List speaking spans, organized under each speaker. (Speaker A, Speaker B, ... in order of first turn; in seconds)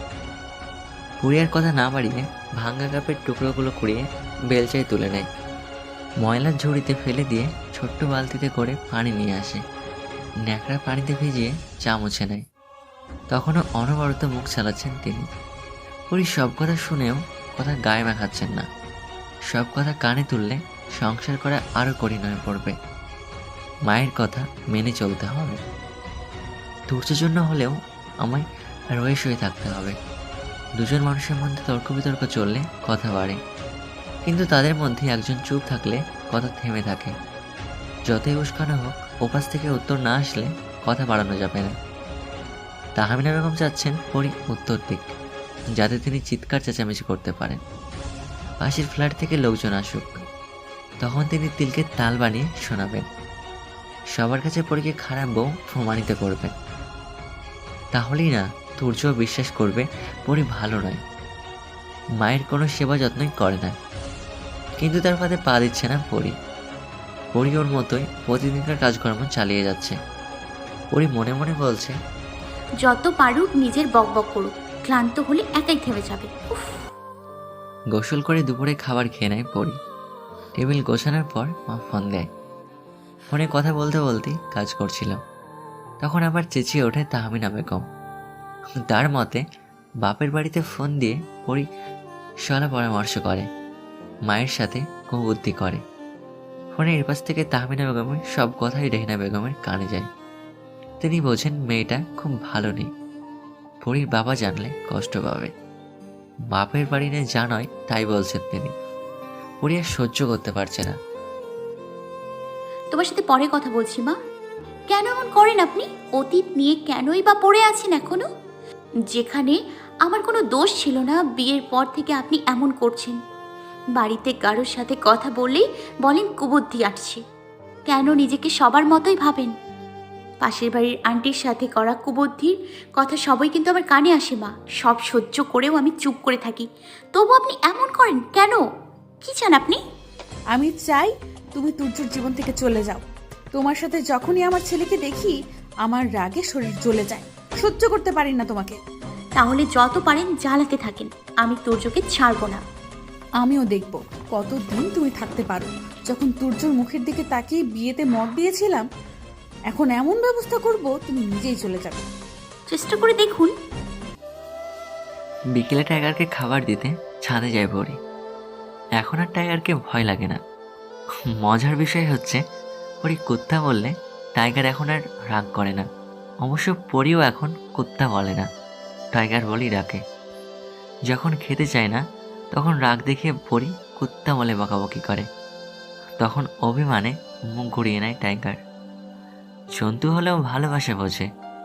Speaker A: 1.2-5.2, 6.2-9.6, 10.5-12.4, 13.3-15.2, 16.1-18.6, 19.5-22.8, 23.9-25.6, 26.9-28.4, 28.9-30.0, 30.8-33.4, 34.2-37.1, 38.1-41.7, 43.0-45.0, 45.7-47.6, 48.6-50.2, 51.0-53.0, 54.1-56.5, 57.9-61.0, 62.2-63.7, 64.8-66.3, 67.3-70.0, 70.9-72.0, 77.9-79.8, 80.6-82.2, 83.3-85.2, 86.0-87.8, 88.9-89.4, 90.0-91.6, 92.5-93.5, 94.3-95.8, 96.8-100.1, 101.0-102.9, 103.8-105.5, 106.5-108.7, 109.6-111.0, 165.5-168.0, 169.0-170.4, 171.4-172.4, 173.0-175.9, 176.4-178.5, 179.1-180.0, 181.1-182.0, 182.5-185.2, 186.2-188.6, 189.8-191.2
Speaker B: 72.8-76.8, 112.9-114.2, 114.9-118.2, 119.1-123.2, 124.0-127.2, 127.9-129.5, 130.4-138.6, 139.2-139.8, 149.4-152.6, 162.7-163.5
Speaker C: 140.5-148.8, 153.4-158.9, 159.7-162.1